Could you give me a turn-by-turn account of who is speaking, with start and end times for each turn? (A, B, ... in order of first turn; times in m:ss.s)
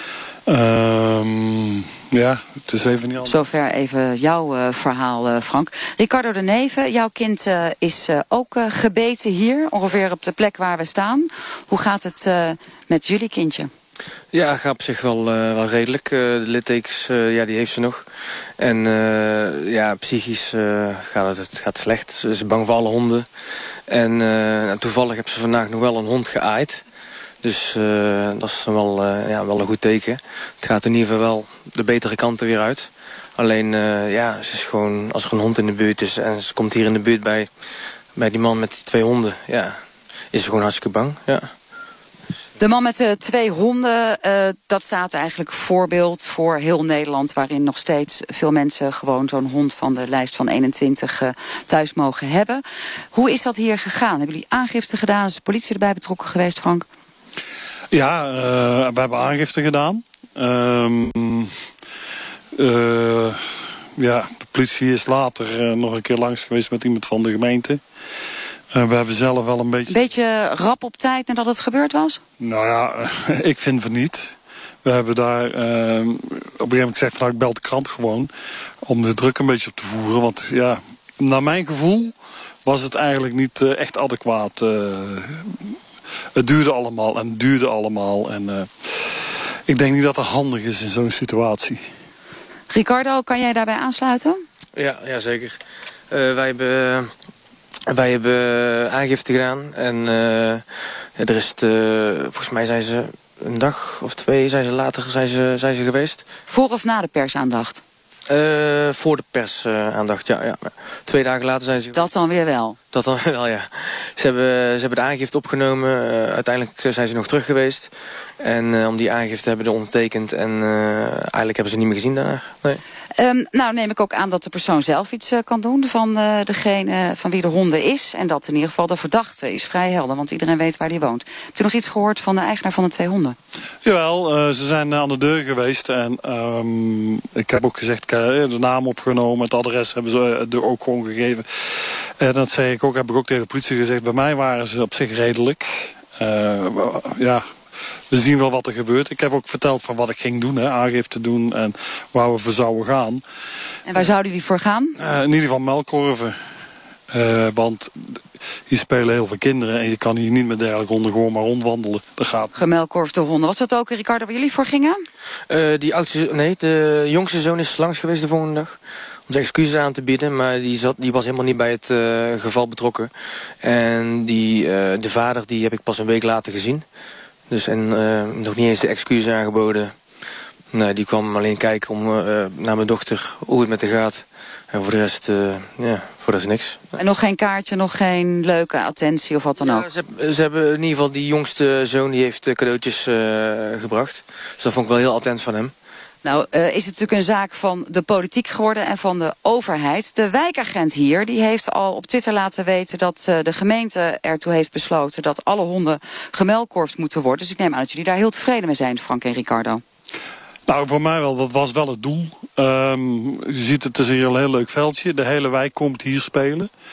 0:00.5-0:03.4 A
0:03.2-0:13.7 B
0:14.3-0:18.1 C
0:18.6-0:23.3 C
0:23.9-0:26.8 C
0:27.4-0:37.5 C
0:38.2-0:41.5 C
0:42.6-0:52.6 B
0:53.1-0:56.9 B
0:57.9-1:01.5 A
1:02.5-1:03.4 A
1:04.0-1:07.8 A
1:08.7-1:10.0 A
1:09.9-1:12.2 B
1:12.4-1:18.3 A
1:18.8-1:25.6 A
1:26.4-1:31.9 A
1:32.7-1:34.4 B
1:34.8-1:37.1 C
1:37.9-1:46.3 C
1:46.5-1:47.8 B
1:48.3-1:52.1 C
1:51.9-1:52.8 B
1:52.9-2:02.8 C
2:03.2-2:13.4 B
2:13.8-2:27.5 A
2:28.1-2:33.2 A
2:33.9-2:35.0 B
2:35.0-2:36.4 A
2:37.1-2:42.5 A
2:42.5-2:45.0 B
2:45.5-2:56.9 C
2:57.5-3:00.0 C
3:00.7-3:06.8 C
3:07.0-3:09.9 B
3:09.6-3:15.7 C
3:16.2-3:29.8 B
3:30.7-3:36.7 A